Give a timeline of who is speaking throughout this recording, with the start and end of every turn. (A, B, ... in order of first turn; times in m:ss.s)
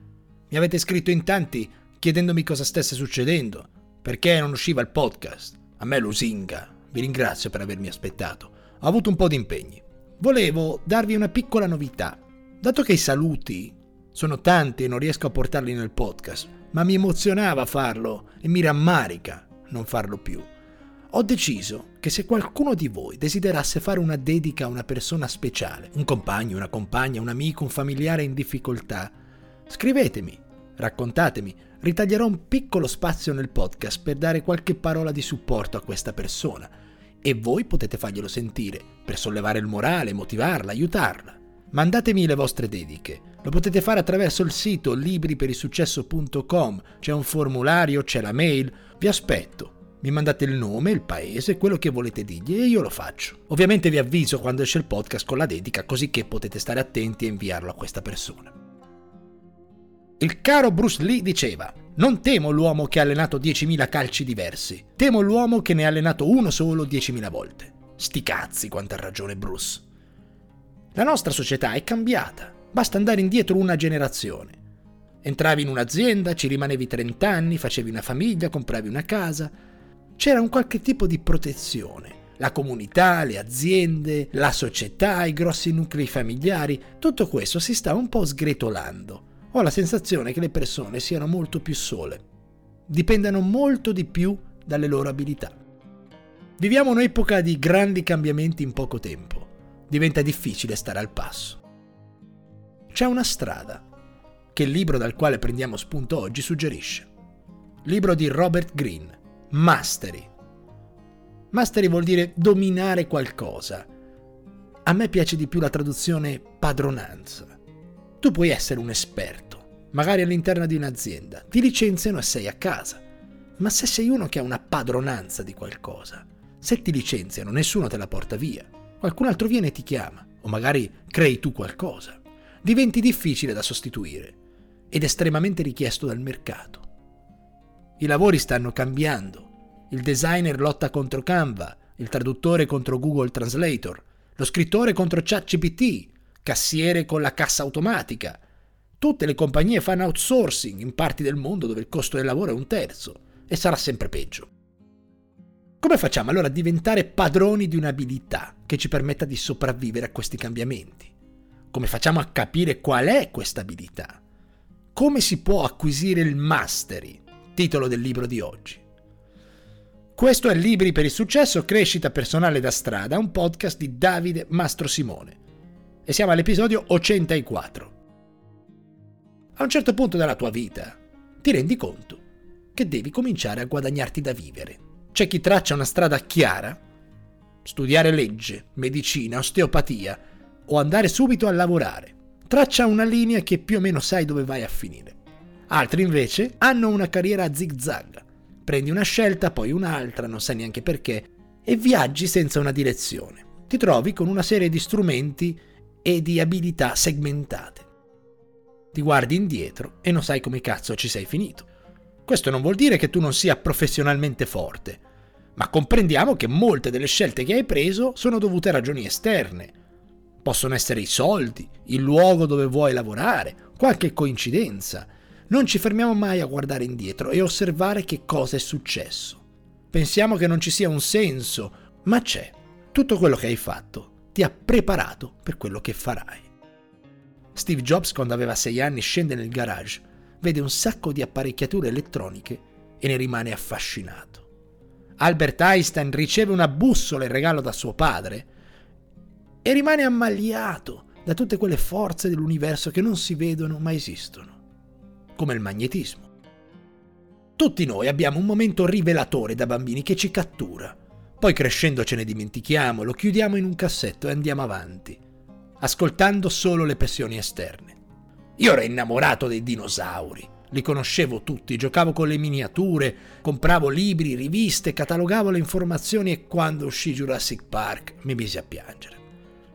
0:00.5-0:20.5 A
0:21.1-0:29.1 A
0:29.7-0:36.7 A
0:37.2-0:58.5 A
1:00.2-1:09.8 A
1:10.9-1:14.6 A
1:15.2-1:19.5 A
1:20.2-1:32.2 A
1:32.9-1:35.6 A
1:36.6-1:41.6 A
1:42.9-1:43.8 A
1:44.5-1:47.1 A
1:47.8-1:50.3 A
1:51.5-1:53.9 A
1:54.8-1:57.5 A
1:58.2-2:03.0 A
2:03.6-2:14.4 A
2:14.9-2:16.8 A
2:18.0-2:28.4 A
2:29.0-2:34.5 A
2:35.8-2:41.1 A
2:41.7-2:44.2 A
2:44.9-2:48.8 A
2:50.1-2:55.4 A
2:56.0-2:57.9 A
2:59.6-3:02.2 A
3:02.7-3:06.8 A
3:07.6-3:15.2 A
3:15.7-3:27.9 A
3:28.9-3:31.7 A
3:32.2-3:35.0 A
3:35.6-3:39.7 A
3:40.4-3:56.5 A
3:57.5-4:04.4 A
4:05.2-4:08.5 A
4:09.6-4:14.6 A
4:15.3-4:16.3 A
4:17.6-4:25.2 A
4:25.8-4:28.0 A
4:28.6-4:39.2 A